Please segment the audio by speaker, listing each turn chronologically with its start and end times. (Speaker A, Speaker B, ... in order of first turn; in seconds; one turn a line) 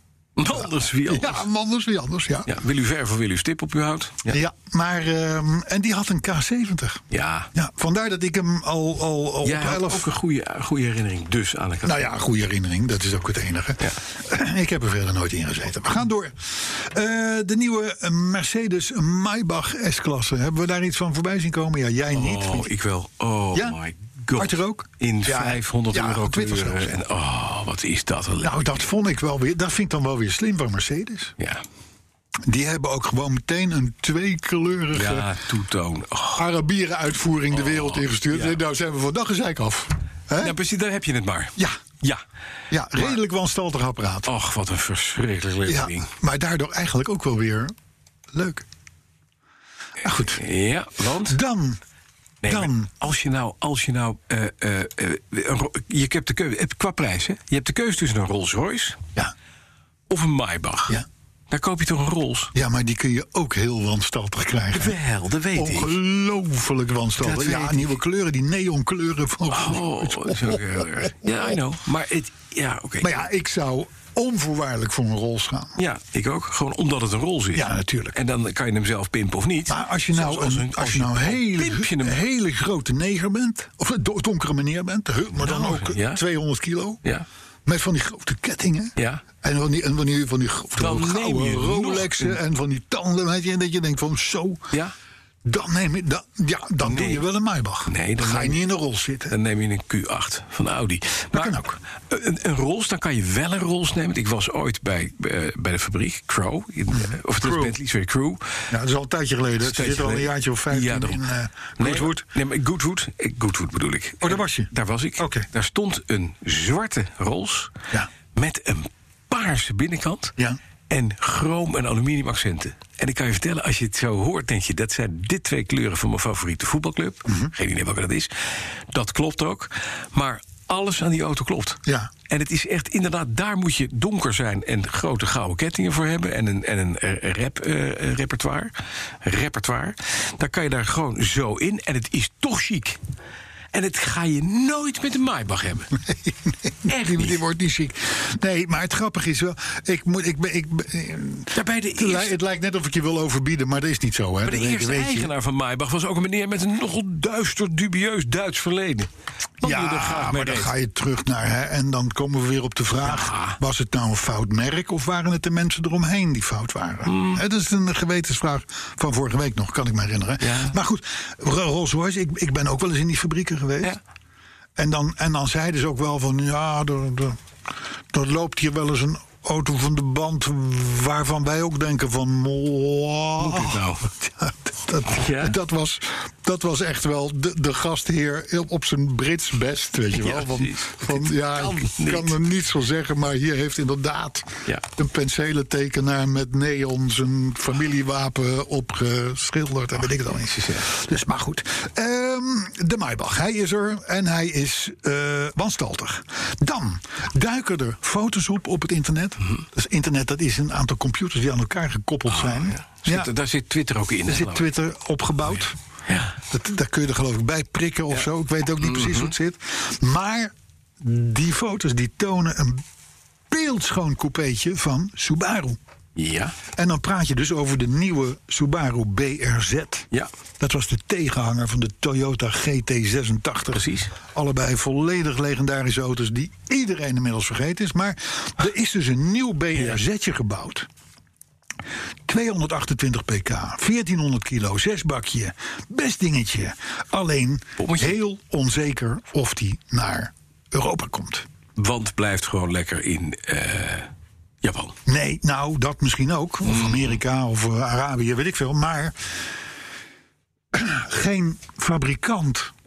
Speaker A: 0.4-1.4
Speaker B: 0.5-2.5
Speaker A: 2.5-4.4
Speaker B: 4.3-10.1
Speaker A: 7.1-7.5
Speaker A: 9.4-12.0
Speaker B: 11.8-22.7
Speaker A: 22.1-28.8
Speaker B: 24.4-26.9
Speaker B: 28.4-31.3
Speaker B: 32.5-35.3
Speaker A: 34.9-36.4
Speaker B: 36.4-40.5
Speaker A: 37.5-38.6
Speaker A: 40.4-42.2
Speaker B: 42.7-44.3
Speaker A: 44.2-46.1
Speaker B: 45.6-47.7
Speaker B: 48.3-48.6
Speaker B: 50.0-50.4
Speaker A: 50.2-51.4
Speaker B: 51.2-51.8
Speaker A: 52.4-59.0
Speaker B: 52.5-52.9
Speaker A: 60.1-62.5
Speaker B: 62.5-65.0
Speaker A: 64.7-66.0
Speaker B: 65.5-71.3
Speaker A: 67.2-67.9
Speaker A: 69.5-73.2
Speaker B: 73.0-75.8
Speaker A: 75.8-82.2
Speaker B: 77.5-78.2
Speaker B: 79.7-87.0
Speaker A: 85.4-86.2
Speaker B: 87.7-94.7
Speaker A: 89.0-89.2
Speaker A: 90.8-92.4
Speaker B: 95.4-99.3
Speaker A: 96.8-97.2
Speaker A: 97.9-98.6
Speaker A: 99.3-108.7
Speaker B: 101.3-101.8
Speaker B: 106.9-107.8
Speaker B: 108.7-112.2
Speaker A: 109.6-111.2
Speaker A: 111.8-117.7
Speaker B: 114.2-115.5
Speaker A: 118.3-120.3
Speaker A: 120.9-143.0
Speaker B: 127.2-127.5
Speaker B: 131.8-132.1
Speaker A: 143.7-145.9
Speaker B: 146.0-155.3
Speaker A: 146.8-147.4
Speaker A: 151.5-152.3
Speaker A: 154.4-159.1
Speaker A: 159.6-160.7
Speaker B: 159.6-173.9
Speaker A: 163.0-163.6
Speaker A: 167.1-167.4
Speaker A: 170.4-170.8
Speaker B: 174.8-177.4
Speaker B: 178.1-213.3
Speaker A: 183.4-184.1
Speaker A: 185.1-185.6
Speaker A: 190.1-192.3
Speaker A: 200.4-200.8
Speaker A: 212.3-214.7
Speaker B: 214.3-215.8
Speaker A: 216.1-216.3
Speaker B: 216.4-222.8
Speaker A: 218.8-219.3
Speaker B: 223.5-225.8
Speaker A: 226.2-226.5
Speaker B: 226.8-230.1
Speaker B: 230.6-240.9
Speaker A: 233.7-234.1
Speaker B: 242.3-251.4
Speaker A: 247.8-248.2
Speaker A: 251.8-254.1
Speaker A: 254.6-254.9
Speaker B: 255.1-259.5
Speaker A: 256.6-257.2
Speaker B: 260.7-262.7